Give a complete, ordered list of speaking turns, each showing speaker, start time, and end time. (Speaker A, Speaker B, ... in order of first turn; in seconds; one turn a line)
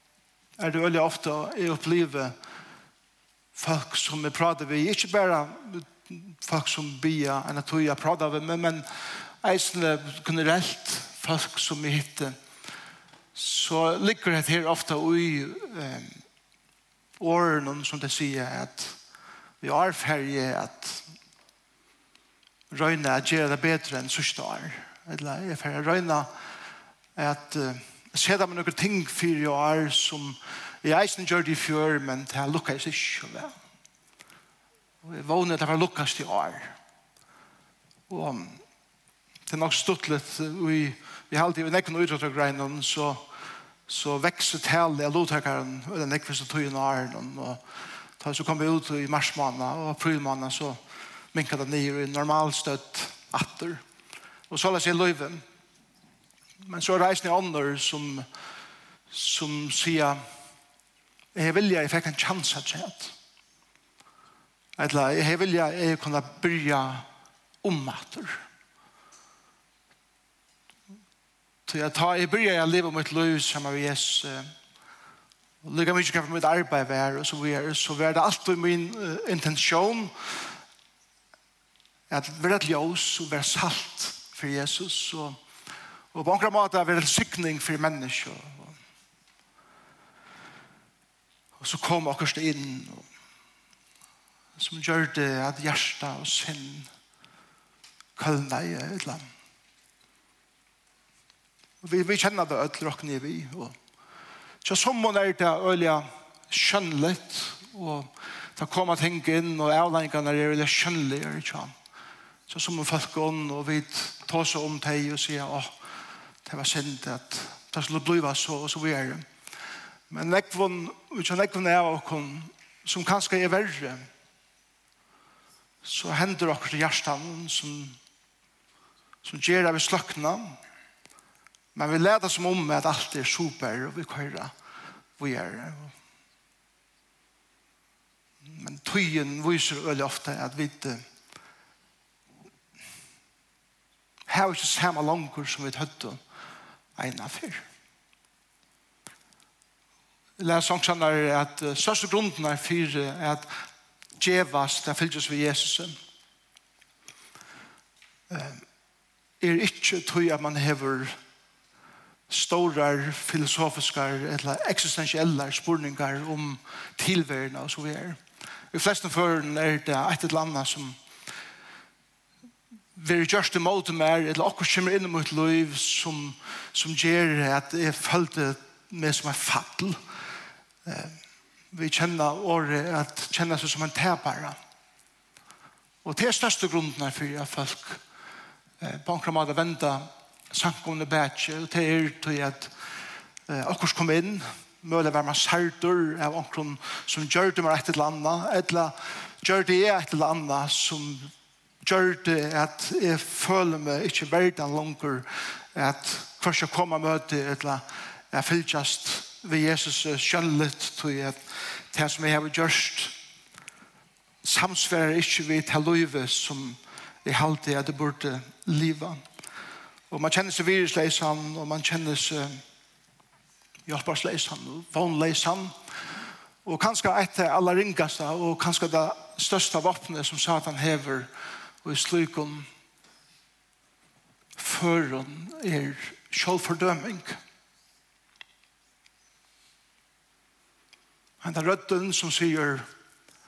Speaker A: 0.6-2.4
Speaker A: 3.5-12.4
Speaker A: 13.3-16.2
Speaker A: 17.2-19.0
Speaker A: 19.6-21.1
Speaker A: 22.7-26.3
Speaker A: 27.1-33.6
Speaker A: 35.0-36.8
Speaker A: 38.1-38.6
Speaker A: 39.5-43.3
Speaker A: 43.9-47.6
Speaker A: 48.2-50.8
Speaker A: 51.3-53.8
Speaker A: 54.5-55.4
Speaker A: 56.6-58.3
Speaker A: 59.1-60.2
Speaker A: 61.3-63.1
Speaker A: 64.8-67.1
Speaker A: 67.6-68.4
Speaker A: 71.7-74.5
Speaker A: 75.6-80.6
Speaker A: 82.1-85.4
Speaker A: 86.1-88.8
Speaker A: 91.6-93.1
Speaker A: 94.6-96.9
Speaker A: 98.2-99.3
Speaker A: 101.8-103.8
Speaker A: 104.6-111.7
Speaker A: 112.5-115.7
Speaker A: 116.5-119.2
Speaker A: 120.1-124.1
Speaker A: 125.8-128.0
Speaker A: 129.2-130.6
Speaker A: 131.8-134.5
Speaker A: 135.2-135.9
Speaker A: 138.4-141.0
Speaker A: 144.3-146.2
Speaker A: 147.0-147.7
Speaker A: 150.4-153.6
Speaker A: 154.2-155.9
Speaker A: 158.3-158.6
Speaker A: 159.4-161.2
Speaker A: 162.3-168.2
Speaker A: 168.7-171.0
Speaker A: 172.9-180.0
Speaker A: 180.8-181.2
Speaker A: 181.7-184.6
Speaker A: 186.0-188.0
Speaker A: 188.8-192.7
Speaker A: 193.5-201.3
Speaker A: 201.8-213.2
Speaker A: 214.4-219.2
Speaker A: 220.1-222.6
Speaker A: 223.9-225.8
Speaker A: 226.7-231.3
Speaker A: 231.8-232.7
Speaker A: 234.6-237.4
Speaker A: 241.4-242.9